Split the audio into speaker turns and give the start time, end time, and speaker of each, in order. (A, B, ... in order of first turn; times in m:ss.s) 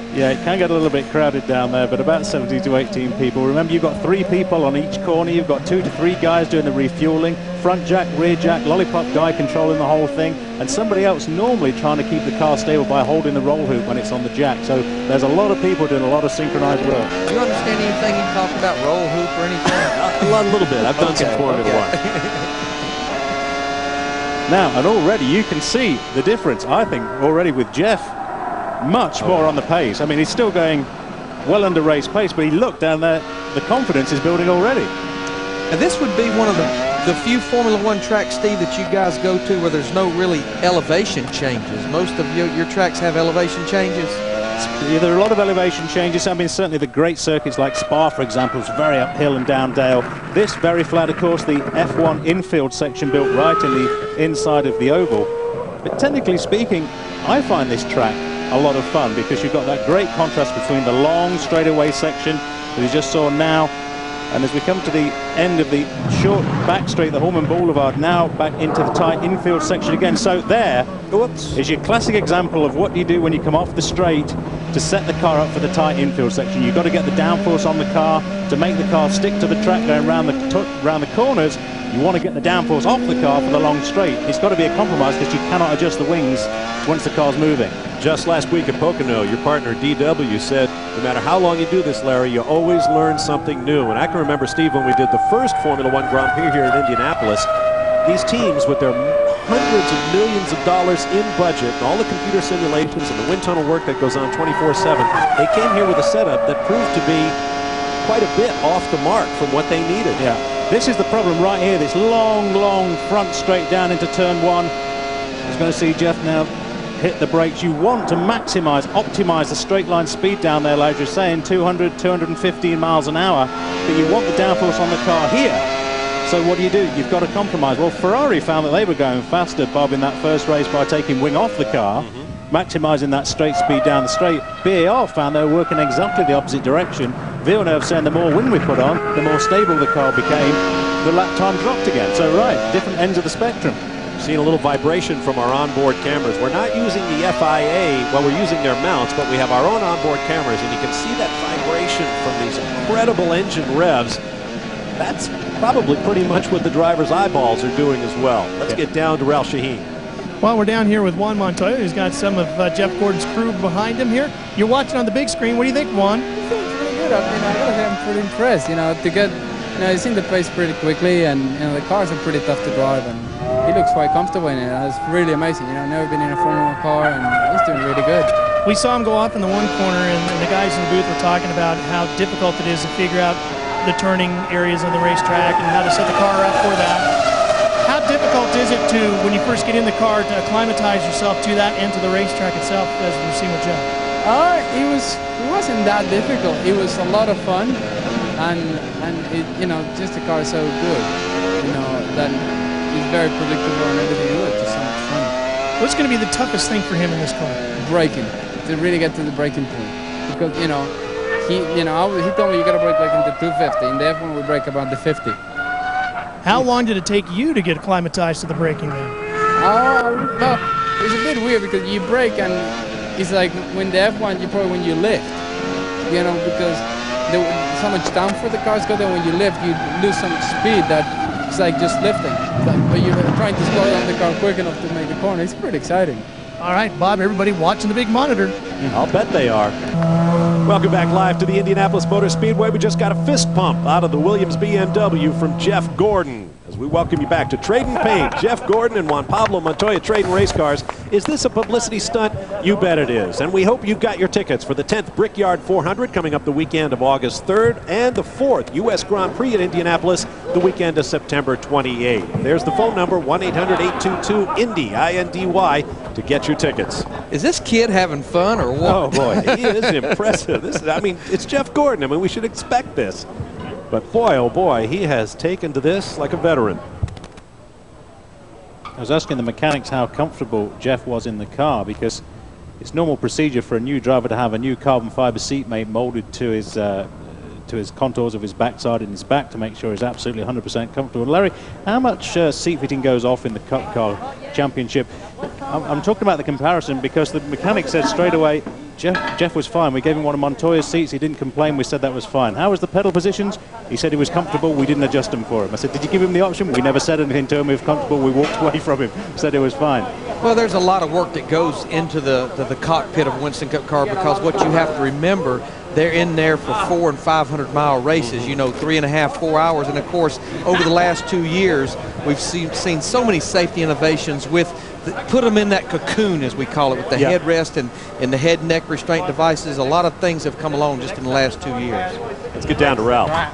0:00.1-0:17.1 A
0:17.2-0:22.5 B
0:19.9-0:22.0 C
0:24.5-0:28.1 A
0:28.8-0:30.9 A
0:31.4-0:34.9 A
0:35.7-0:44.2 B
0:44.6-0:55.3 A
0:55.8-1:03.7 A
1:04.3-1:10.9 A
1:11.1-1:11.6 B
1:11.5-1:27.8 A
1:28.0-1:37.5 C
1:38.0-1:47.4 C
1:48.0-1:50.2 C
1:50.2-1:54.7 A
1:55.4-2:05.6 A
2:06.2-2:23.8 A
2:12.0-2:12.3 C
2:24.2-2:34.2 C
2:35.0-2:39.8 C
2:40.4-2:46.3 D
2:46.4-2:58.3 E
2:58.6-3:07.1 D
3:07.8-3:13.8 D
3:14.2-3:17.8 E
3:18.3-3:25.3 E
3:25.8-3:27.6 D
3:27.8-3:35.4 E
3:36.4-3:39.1 D
3:39.6-3:45.4 E
3:46.0-3:56.2 E
3:56.6-3:58.6 D
3:58.9-3:59.8 C
4:00.6-4:27.0 C
4:27.3-4:30.1 B
4:28.8-4:33.2 C
4:28.9-4:29.4 A
4:33.9-4:36.8 C
4:39.0-4:42.2 A
4:42.8-4:55.1 A
4:55.7-5:10.1 A
5:10.4-5:32.2 B
5:18.1-5:18.6 C
5:32.5-5:33.4 C